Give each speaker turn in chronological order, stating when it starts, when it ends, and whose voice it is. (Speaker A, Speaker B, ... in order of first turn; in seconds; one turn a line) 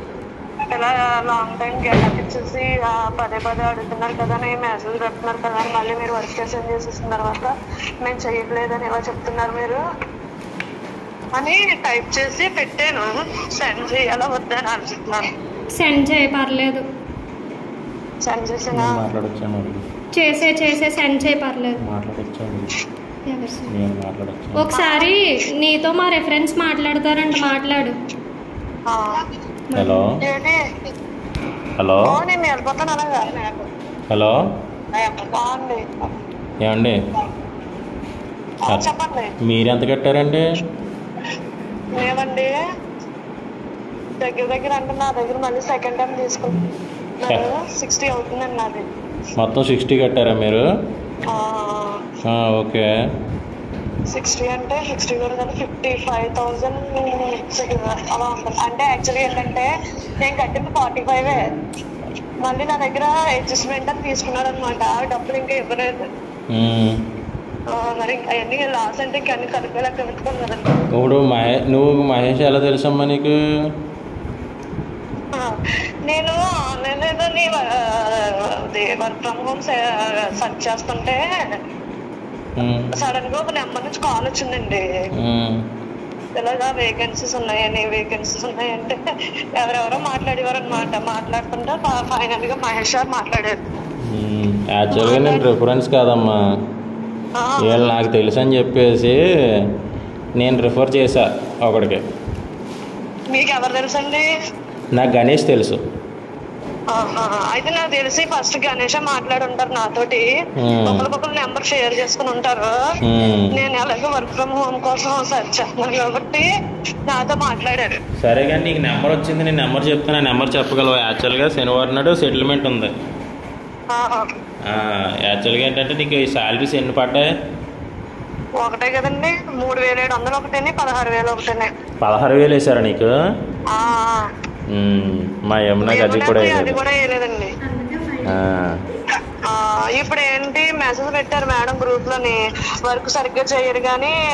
Speaker A: 0.7-9.8
Speaker A: 11.3-15.3
Speaker B: 15.7-16.9
Speaker A: 18.2-19.0
Speaker C: 18.7-19.8
Speaker B: 20.1-21.8
Speaker C: 21.8-22.7
Speaker B: 23.3-23.7
Speaker C: 23.7-24.7
Speaker B: 24.6-27.9
Speaker A: 24.7-25.1
Speaker B: 29.7-30.1
Speaker C: 29.7-30.1
Speaker A: 30.2-30.6
Speaker C: 31.8-32.2
Speaker A: 32.0-33.7
Speaker C: 34.1-34.3
Speaker A: 35.0-36.2
Speaker C: 36.6-37.0
Speaker A: 38.7-39.3
Speaker C: 39.4-40.4
Speaker A: 42.0-42.5
Speaker A: 44.2-46.6
Speaker A: 47.2-48.8
Speaker C: 49.4-50.6
Speaker A: 51.3-52.0
Speaker C: 52.2-52.9
Speaker A: 54.1-59.7
Speaker A: 60.2-61.4
Speaker A: 62.4-66.0
Speaker C: 66.5-67.0
Speaker A: 67.7-70.7
Speaker C: 70.9-73.4
Speaker A: 76.0-81.2
Speaker C: 82.6-82.9
Speaker A: 82.9-84.8
Speaker C: 85.2-85.6
Speaker A: 86.3-89.0
Speaker A: 89.6-93.6
Speaker C: 94.1-96.3
Speaker A: 94.9-95.4
Speaker A: 97.4-97.9
Speaker C: 97.6-99.2
Speaker C: 100.4-102.0
Speaker A: 103.3-104.2
Speaker C: 104.9-105.8
Speaker A: 106.9-110.2
Speaker C: 110.6-111.1
Speaker A: 110.8-112.7
Speaker C: 113.0-113.5
Speaker A: 113.5-116.4
Speaker A: 117.1-118.0
Speaker C: 118.2-122.9
Speaker A: 123.9-124.3
Speaker C: 124.7-127.3
Speaker A: 128.6-131.7
Speaker C: 132.0-133.1
Speaker A: 133.7-134.2
Speaker C: 134.7-136.8
Speaker A: 135.8-137.5
Speaker B: 137.6-138.4
Speaker C: 138.2-138.7
Speaker A: 139.5-144.1